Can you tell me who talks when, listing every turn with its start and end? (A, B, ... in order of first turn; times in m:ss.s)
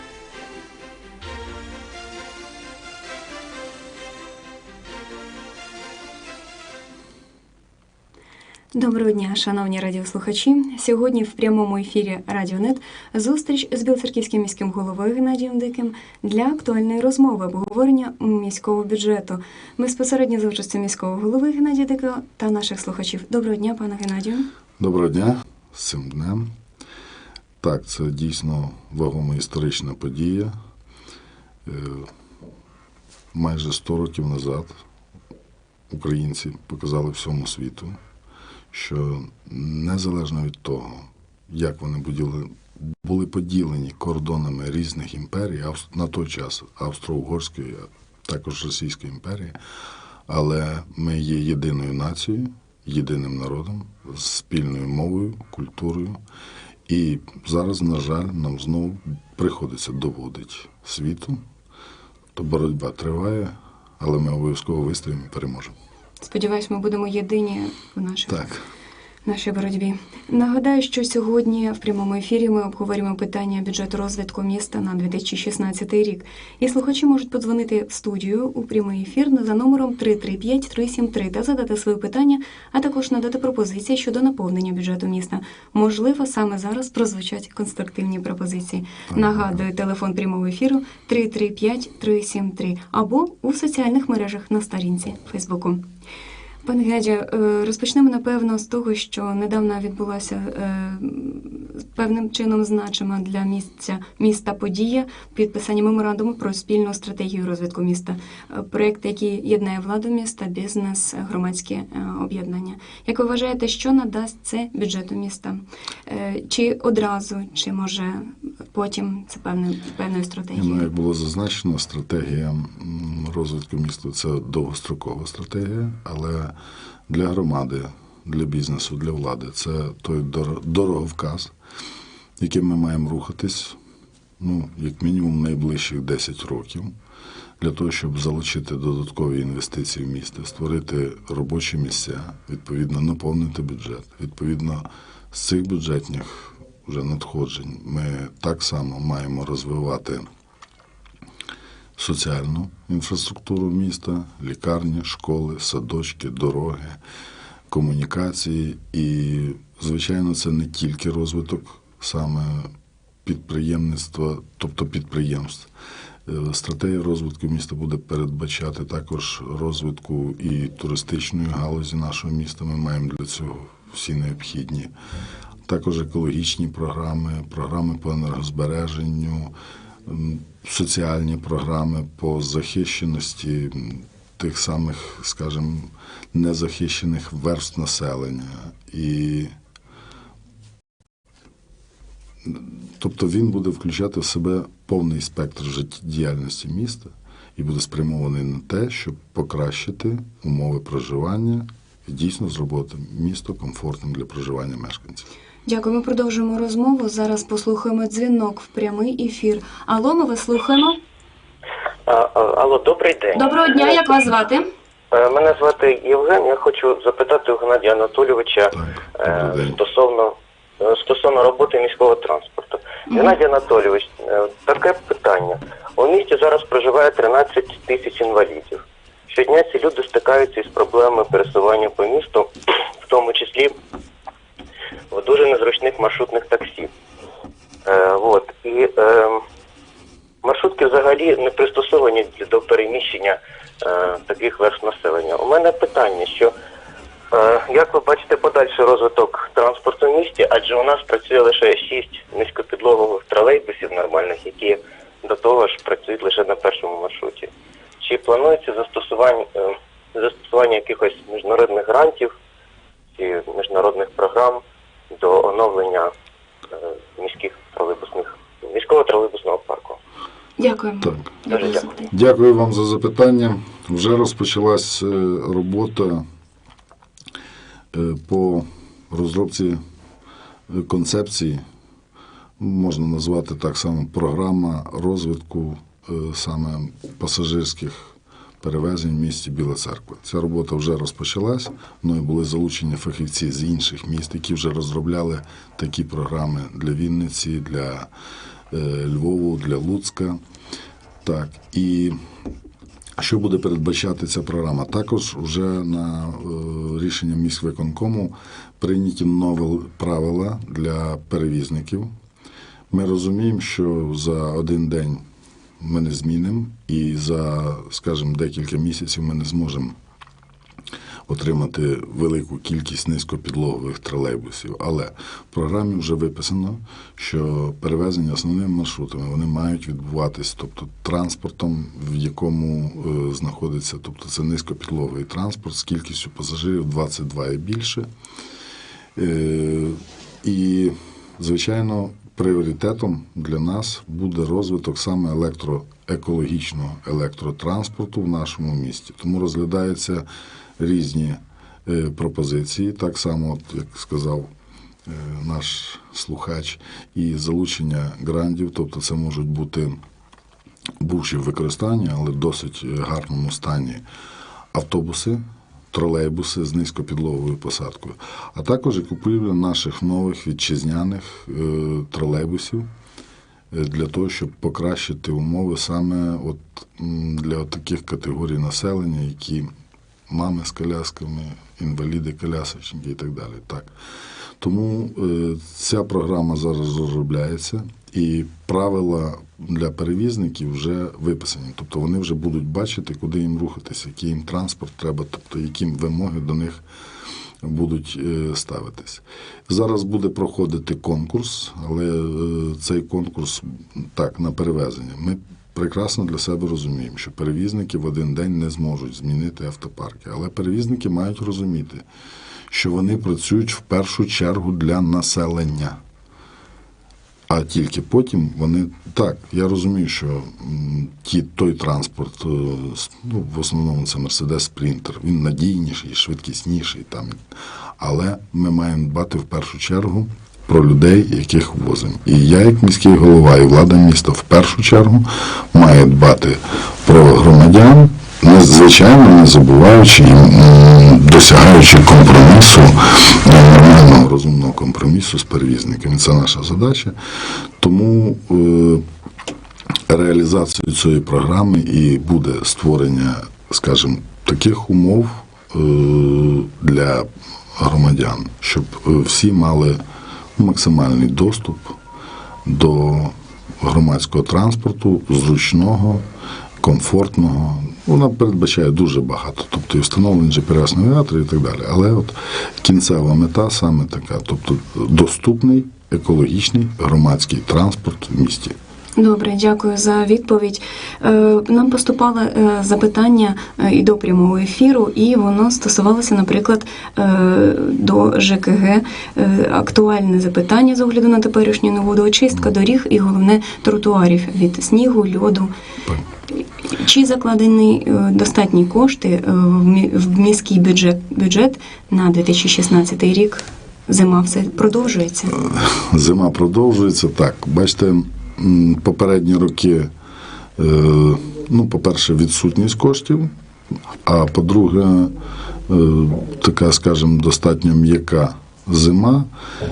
0:08.7-0:24.5 A
0:24.8-0:26.5 B
0:27.6-0:30.5 B
0:31.7-0:32.1 B
0:33.3-0:34.7 B
0:35.9-0:38.0 B
0:38.7-0:49.6 B
0:50.3-0:56.2 B
0:56.9-1:01.4 B
1:02.4-1:05.7 B
1:06.2-1:08.5 A
1:08.3-1:08.6 B
1:09.2-1:35.8 A
1:29.1-1:29.6 B
1:36.6-2:00.9 A
2:00.6-2:06.5 B
2:07.1-2:11.5 B
2:12.4-2:13.8 B
2:14.4-2:16.9 B
2:17.6-2:30.3 B
2:32.0-2:37.0 B
2:37.7-2:42.7 B
2:43.2-2:45.7 B
2:46.3-2:54.9 B
2:55.7-2:59.5 B
3:00.1-3:09.5 B
3:12.4-3:25.3 B
3:25.7-3:31.0 A
3:32.1-3:34.0 C
3:33.4-3:34.6 A
3:35.1-3:52.5 C
3:38.7-3:39.8 B
3:43.1-3:43.4 A
3:53.0-3:53.7 C
3:55.1-3:56.9 C
3:57.9-3:59.4 C
4:00.4-4:06.5 C
4:07.3-4:17.5 C
4:18.0-4:22.3 C
4:23.2-4:26.1 C
4:27.2-4:30.0 C
4:30.6-4:32.1 A
4:31.5-4:31.8 C
4:32.1-4:36.2 B
4:37.9-4:39.8 B
4:40.7-4:41.6 B
4:42.6-4:58.1 B
4:58.7-5:00.4 B
5:01.2-5:02.2 B
5:03.2-5:12.1 B
5:12.9-5:15.2 B
5:15.8-5:20.0 B
5:21.3-5:38.1 B
5:39.2-5:50.2 B
5:50.8-5:54.5 B
5:55.1-6:00.0 B
6:01.0-6:04.0 B
6:04.7-6:12.9 B
6:13.7-6:19.7 B
6:20.3-6:23.9 B
6:24.6-6:36.8 B
6:37.6-6:52.0 B
6:52.7-6:56.0 B
6:57.5-7:07.4 B
7:08.0-7:27.2 B
7:27.8-7:29.0 B
7:30.1-7:40.0 B
7:40.6-7:42.0 B
7:42.7-7:46.2 B
7:46.8-7:58.8 B
7:59.2-8:15.7 A
8:16.5-8:25.6 A
8:25.6-8:30.1 B
8:30.8-8:33.5 B
8:34.2-8:35.3 B
8:35.9-8:39.5 B